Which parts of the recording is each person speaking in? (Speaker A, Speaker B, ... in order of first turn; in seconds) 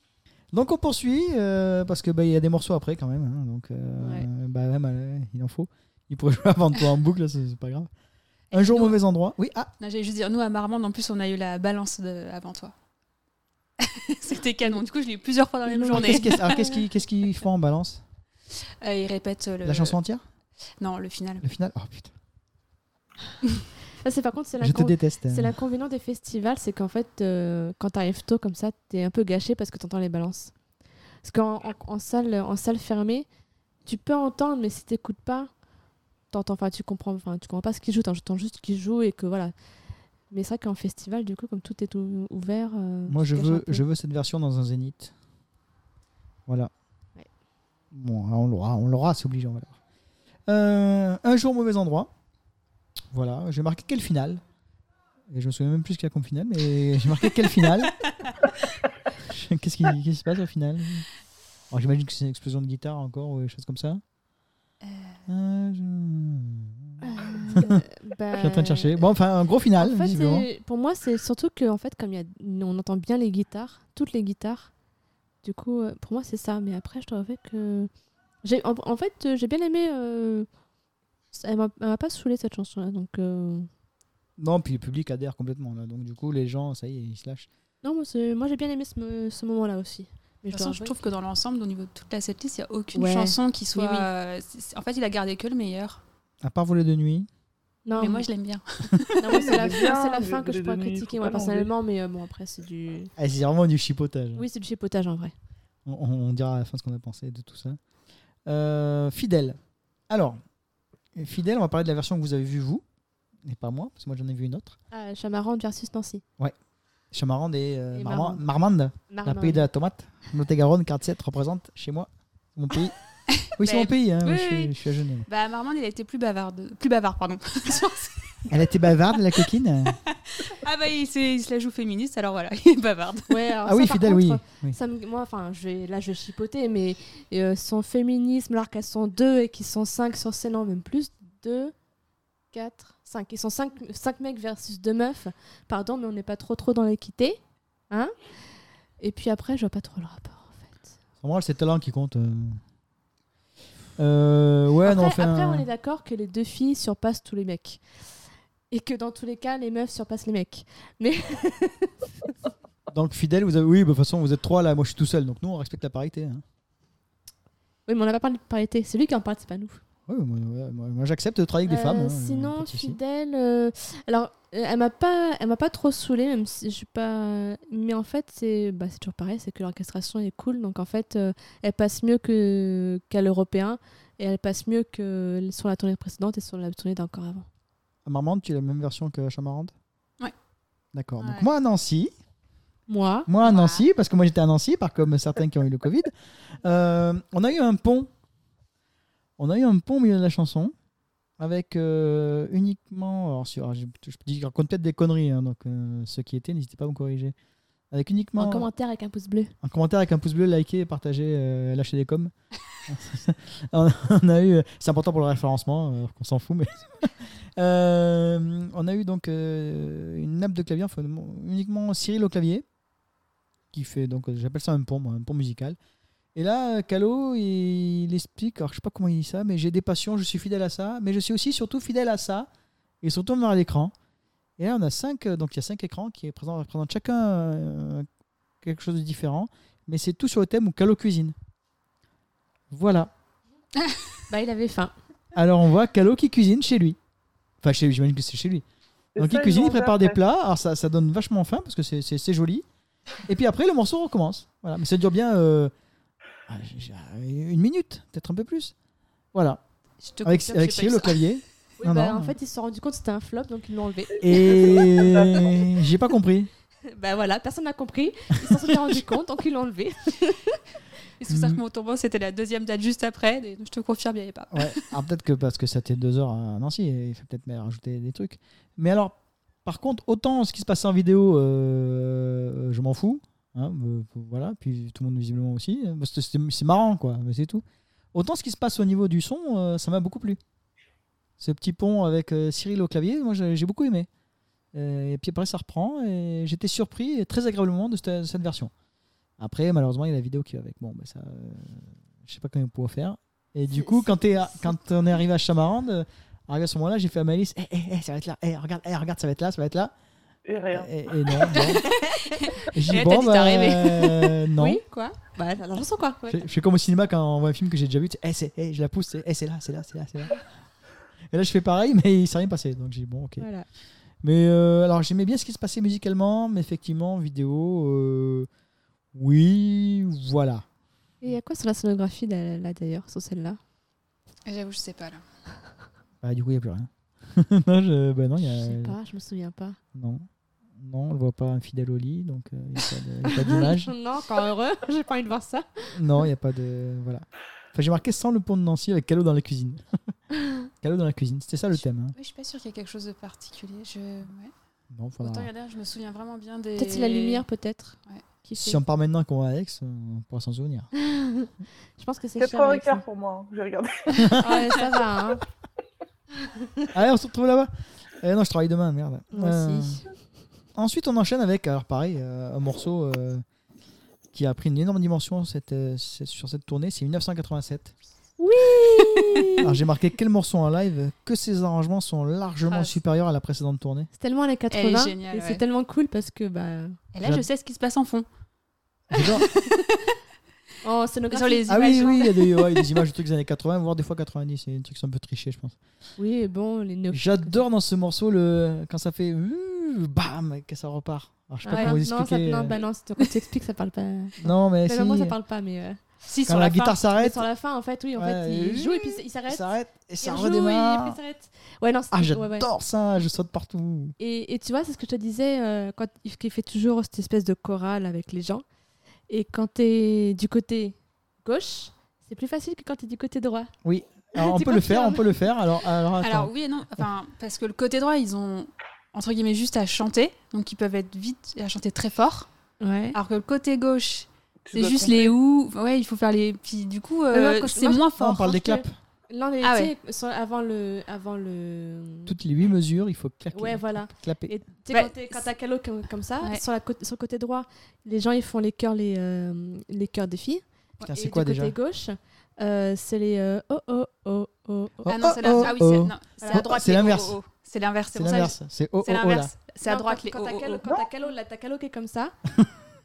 Speaker A: 0.5-7.9, 8.5-9.7, 15.8-18.0, 19.6-20.2, 21.4-22.1, 24.6-25.5, 43.1-45.1, 46.5-46.7, 47.9-49.8, 50.5-52.1, 53.1-54.4, 55.3-58.0, 59.2-61.0, 61.7-64.0, 65.3-70.5, 84.4-87.5, 96.4-97.3, 103.2-104.5, 105.8-107.8, 108.5-109.6, 110.1-110.4, 111.2-112.8, 113.5-114.8, 117.1-123.0, 123.5-125.3, 128.5-130.0, 133.6-134.8, 151.2-152.6, 154.0-155.7, 162.9-166.4, 170.1-173.0, 188.1-189.7, 190.9-192.1, 193.3-198.1, 199.4-200.7, 201.4-207.3, 207.9-208.7, 209.6-212.3, 212.9-222.6, 223.7-225.8, 226.3-232.5, 233.0-233.9, 234.6-238.1, 238.6-241.3, 242.7-243.1, 245.3-247.0, 247.6-248.6, 249.2-252.6, 253.3-255.7, 256.5-258.7, 259.3-259.6, 260.2-262.3, 264.2-266.5, 268.5-268.9, 271.3-271.6, 274.5-290.4, 291.4-294.1, 294.7-298.7, 299.4-309.9, 310.7-311.8, 312.7-314.8, 316.3-320.4, 321.3-323.5, 324.2-328.5, 329.1-330.6, 336.2-338.9, 339.9-340.2, 340.8-343.9, 345.9-350.0, 350.8-352.1, 354.9-355.5, 358.5-360.9, 364.1-364.5, 366.9-370.0, 370.7-373.4, 374.3-377.9, 379.6-384.1, 389.1-389.4, 391.7-395.8, 397.1-402.8, 404.4-405.3, 406.5-407.4, 408.1-411.2, 412.1-414.1, 423.8-426.5, 438.2-438.9, 442.2-444.5, 451.0-451.8, 455.0-457.4, 458.1-459.5
Speaker B: 4.0-4.3, 15.7-16.8, 24.0-30.5, 31.2-33.3, 33.9-35.5, 36.3-39.5, 40.3-43.8, 67.0-69.0, 69.8-74.7, 75.4-77.9, 78.4-80.5, 81.3-83.7, 87.8-91.0, 92.9-94.1, 97.8-98.2, 99.2-103.1, 104.3-105.3, 114.9-116.2, 117.9-118.4, 119.1-119.7, 133.3-141.7, 142.5-147.4, 149.0-150.9, 154.8-157.8, 158.7-162.3, 167.9-169.8, 171.7-187.4, 192.9-193.3, 208.4-209.5, 244.3-244.9, 261.8-265.3, 266.9-270.6, 314.5-316.4, 323.4-323.6, 331.2-333.6, 338.4-339.8, 343.2-346.2, 356.8-358.8, 360.9-363.0, 364.4-365.4, 369.3-370.0, 378.4-379.8, 384.1-387.0, 390.8-392.3, 396.2-397.6, 401.6-406.0, 407.1-409.7, 410.2-412.7, 414.2-418.6, 419.3-423.7, 424.4-425.2, 432.8-433.2, 437.3-438.7, 439.3-442.3, 443.5-455.8, 456.4-456.7, 459.8-462.3
Speaker C: 8.5-9.0, 9.8-12.7, 13.8-16.6, 18.8-20.0, 20.8-21.4, 64.8-65.2, 90.5-96.0, 98.0-99.5, 123.4-124.7, 125.3-128.5, 130.1-133.4, 191.2-191.5, 193.4-193.8, 260.0-261.2, 271.2-274.8, 311.5-314.1, 334.4-335.2, 352.1-354.5, 355.2-357.4, 382.7-383.0, 384.7-385.6, 387.1-388.2, 389.1-390.1, 391.3-392.6, 401.7-401.9, 406.2-407.0, 426.2-432.5, 433.1-438.8, 439.6-439.9, 444.9-445.4, 455.1-460.9
Speaker D: 99.3-101.7, 249.1-250.2, 264.3-265.6, 310.4-310.9, 362.4-364.5, 434.6-435.4